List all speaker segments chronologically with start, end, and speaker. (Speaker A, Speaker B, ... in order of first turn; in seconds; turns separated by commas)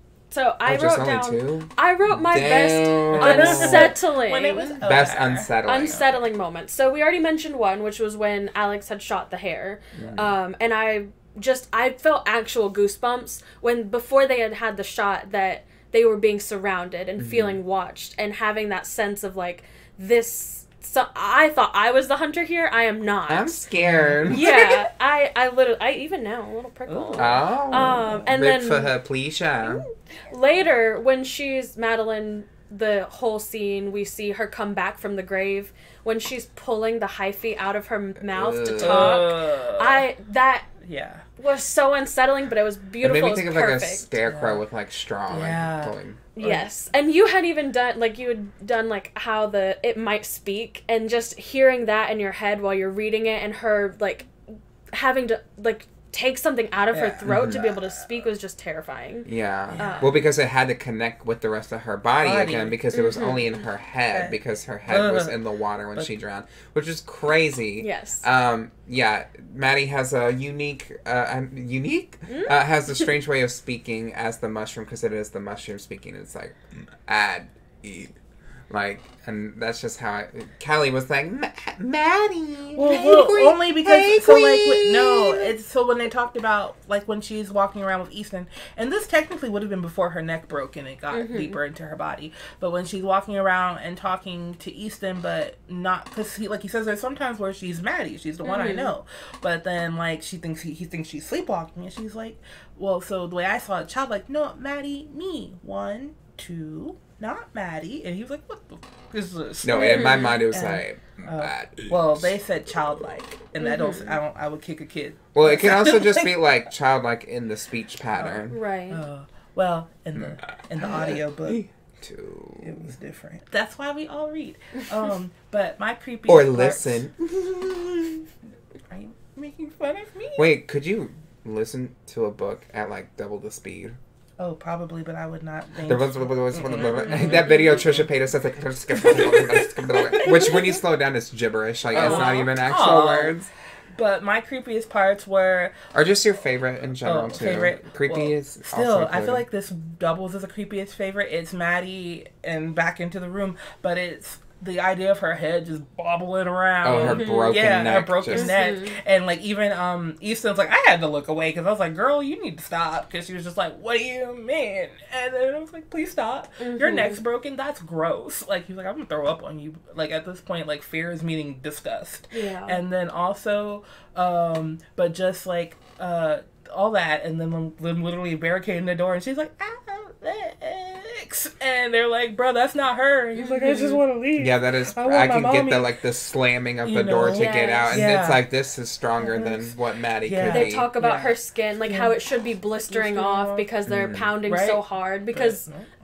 Speaker A: 0.3-4.8, Speaker B: 0.6-4.0, Speaker C: 3.1-5.5, Speaker B: 4.8-6.1, Speaker A: 5.7-23.6, Speaker B: 9.9-10.3, Speaker B: 17.2-17.6, Speaker B: 23.3-24.8, Speaker C: 23.8-24.7, Speaker A: 24.3-28.9, Speaker C: 26.9-27.9, Speaker B: 27.2-29.9, Speaker A: 29.6-40.7, Speaker B: 38.2-39.3, Speaker C: 38.8-40.0, Speaker C: 40.8-41.2, Speaker A: 41.4-44.1, Speaker B: 43.0-46.2, Speaker C: 44.2-44.6, Speaker C: 45.3-46.7, Speaker A: 46.4-54.3, Speaker A: 54.9-60.1, Speaker C: 56.9-57.8, Speaker B: 57.2-57.7, Speaker B: 59.2-78.2, Speaker C: 59.7-60.2, Speaker C: 62.2-62.8, Speaker A: 62.9-63.5, Speaker C: 64.1-65.4, Speaker A: 67.8-68.2, Speaker A: 72.3-72.6, Speaker B: 78.7-85.5, Speaker C: 82.7-116.6, Speaker A: 91.1-91.6, Speaker A: 98.4-98.9, Speaker B: 109.6-112.3, Speaker A: 109.7-110.4, Speaker A: 113.6-114.2, Speaker B: 115.3-118.6, Speaker C: 118.1-121.6, Speaker A: 118.5-119.0, Speaker B: 120.1-122.9, Speaker C: 122.6-127.1, Speaker B: 126.3-128.2, Speaker C: 128.9-130.5, Speaker B: 130.3-134.0, Speaker C: 134.4-138.1, Speaker B: 135.8-143.5, Speaker A: 136.9-137.7, Speaker C: 138.9-140.8, Speaker C: 141.9-143.4, Speaker A: 142.0-142.5, Speaker C: 143.9-145.7, Speaker B: 145.9-149.4, Speaker C: 147.0-185.9, Speaker B: 156.8-158.5, Speaker A: 157.0-157.6, Speaker A: 158.3-158.9, Speaker A: 166.6-167.2, Speaker A: 172.3-172.8, Speaker A: 183.3-184.0, Speaker B: 184.4-190.9, Speaker C: 186.8-188.4, Speaker A: 187.3-188.1, Speaker C: 189.2-192.2, Speaker A: 190.5-195.6, Speaker C: 192.9-193.7, Speaker B: 193.9-194.3, Speaker C: 194.4-195.9